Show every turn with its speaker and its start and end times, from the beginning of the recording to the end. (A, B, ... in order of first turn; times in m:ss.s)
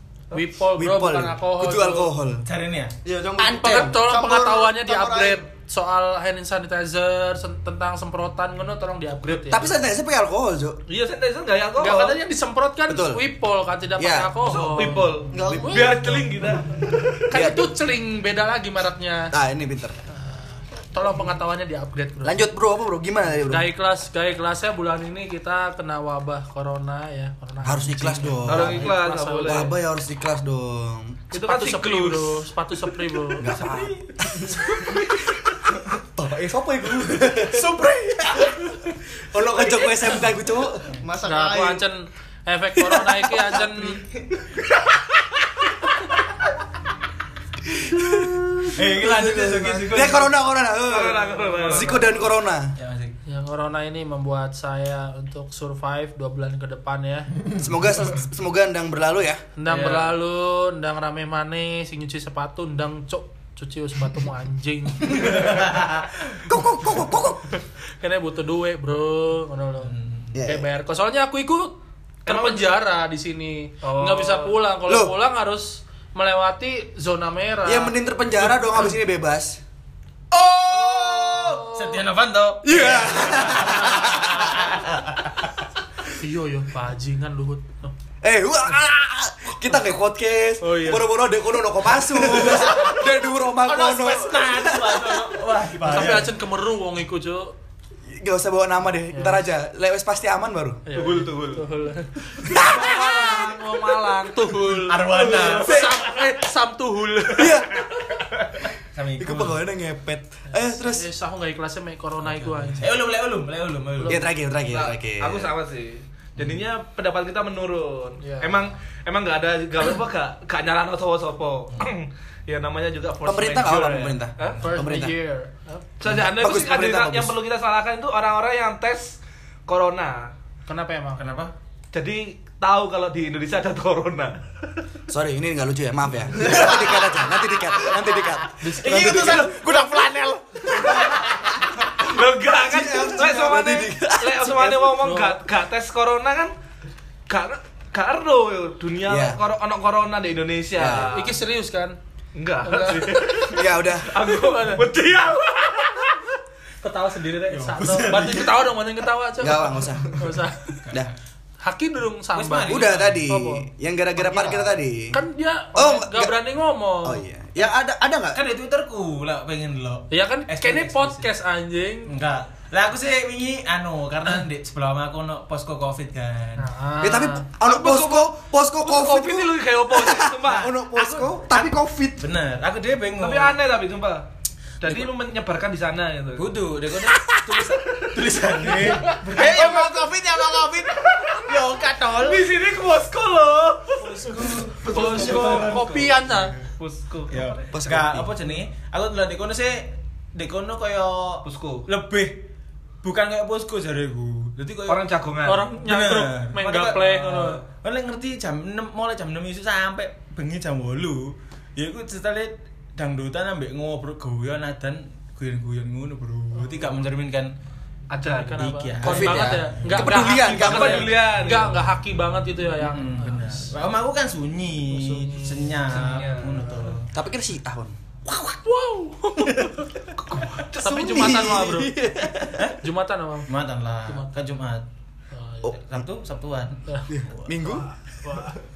0:00.3-0:02.1 A
0:00.7-0:02.4 B
0:02.4-0:02.9 C
0:03.0-0:05.4 D
0:03.4-0:09.7 A
0:03.4-0:03.9 B
0:09.3-0:10.8 B
0:10.9-0:12.2 E
0:11.8-0:15.0 A
0:12.9-0:13.2 B
0:14.0-0:15.8 B
0:14.7-0:16.9 E
0:15.3-0:16.1 D
0:15.5-0:16.1 A
0:17.3-0:19.3 A
0:17.3-0:17.7 B
0:19.3-0:20.0 B
0:20.1-0:22.5 A
0:22.2-0:23.7 B
0:23.4-0:29.7 A
0:27.6-0:31.2 B
0:28.4-0:29.7 E
0:31.3-0:33.5 A
0:31.3-0:32.4 E
0:33.4-0:35.4 B
0:33.5-0:34.0 C
0:36.1-0:37.7 B
0:37.4-0:38.6 C
0:39.3-0:40.8 B
0:39.7-0:40.2 C
0:41.0-0:41.8 D
0:41.2-0:44.0 A
0:42.8-0:43.6 B
0:47.7-0:52.7 B
0:48.8-0:50.3 C
0:49.7-0:50.0 D
0:50.8-0:52.0 E
0:52.8-0:53.1 C
0:53.2-0:57.3 A
0:57.6-0:59.4 B
0:59.6-1:05.7 A
0:59.6-1:00.1 C
1:05.2-1:06.0 C
1:06.4-1:07.4 B
1:08.0-1:09.9 A
1:09.8-1:10.4 C
1:10.3-1:10.7 B
1:10.4-1:18.5 A
1:12.2-1:12.7 E
1:13.8-1:14.6 E
1:14.9-1:15.1 B
1:17.6-1:19.6 B
1:20.4-1:25.1 C
1:20.7-1:22.0 A
1:22.6-1:24.7 B
1:22.8-1:24.3 A
1:26.1-1:27.9 A
1:28.2-1:35.3 B
1:30.6-1:31.1 A
1:32.2-1:33.0 C
1:33.6-1:36.3 C
1:35.8-1:37.5 A
1:38.1-1:40.8 B
1:39.1-1:39.4 A
1:40.9-1:47.8 A
1:40.9-1:41.6 E
1:42.5-1:43.6 B
1:44.6-1:45.7 C
1:45.1-1:45.8 E
1:45.6-1:45.9 B
1:47.3-1:47.8 B
1:48.9-1:49.6 C
1:49.2-1:51.1 B
1:50.5-1:53.0 A
1:52.2-1:54.2 C
1:54.0-1:54.3 A
1:54.0-1:55.5 B
1:54.7-2:04.6 E
1:56.4-1:56.6 C
1:58.2-1:58.6 A
2:03.2-2:05.1 B
2:04.5-2:04.8 C
2:04.6-2:06.1 A
2:06.0-2:10.3 E
2:06.4-2:07.3 B
2:10.6-2:11.2 A
2:11.2-2:11.5 C
2:11.9-2:14.4 E
2:15.1-2:19.4 B
2:18.6-2:19.8 A
2:18.6-2:20.6 C
2:18.8-2:19.4 E
2:20.6-2:21.2 E
2:21.8-2:26.5 E
2:22.6-2:25.1 B
2:25.0-2:25.4 A
2:27.3-2:31.3 E
2:29.0-2:29.4 B
2:30.8-2:31.1 B
2:31.0-2:32.0 A
2:32.3-2:36.2 E
2:32.6-2:34.8 A
2:33.5-2:34.1 B
2:36.8-2:40.8 A
2:37.5-2:38.6 C
2:39.4-2:40.2 B
2:41.6-2:43.6 A
2:42.3-2:43.2 C
2:42.6-2:45.2 B
2:44.2-2:44.7 D
2:45.1-2:47.2 A
2:45.7-2:46.3 B
2:47.0-2:48.4 B
2:48.3-2:51.2 C
2:50.1-2:52.1 A
2:52.0-2:56.7 C
2:56.6-2:57.5 A
2:57.0-3:02.3 B
2:57.6-3:00.7 E
3:01.0-3:01.3 A
3:02.2-3:03.6 C
3:03.2-3:04.3 E
3:04.8-3:06.5 E
3:04.8-3:05.1 C
3:06.4-3:12.4 C
3:09.0-3:09.8 A
3:09.2-3:11.5 E
3:12.1-3:14.2 E
3:14.0-3:16.6 C
3:14.4-3:15.8 D
3:14.8-3:16.6 A
3:14.9-3:15.7 E
3:16.8-3:17.7 E
3:17.3-3:22.4 C
3:17.7-3:18.3 B
3:21.4-3:21.8 E
3:23.0-3:25.0 C
3:24.8-3:25.7 E
3:25.4-3:27.6 A
3:25.8-3:37.6 C
3:27.0-3:27.6 E
3:36.5-3:37.0 A
3:38.1-3:38.7 E
3:38.2-3:43.7 A
3:38.6-3:40.2 C
3:39.0-3:41.1 B
3:40.3-3:41.8 E
3:42.8-3:47.1 C
3:44.9-3:45.8 A
3:45.9-3:46.8 E
3:47.1-3:47.9 B
3:48.3-3:50.0 A
3:50.5-3:52.7 B
3:50.8-3:52.0 A
3:52.8-3:53.5 A
3:53.5-3:54.9 C
3:54.0-3:54.4 A
3:55.3-3:55.7 A
3:55.6-3:56.0 B
3:55.7-3:57.5 C
3:57.1-3:57.9 B
3:57.6-3:58.6 A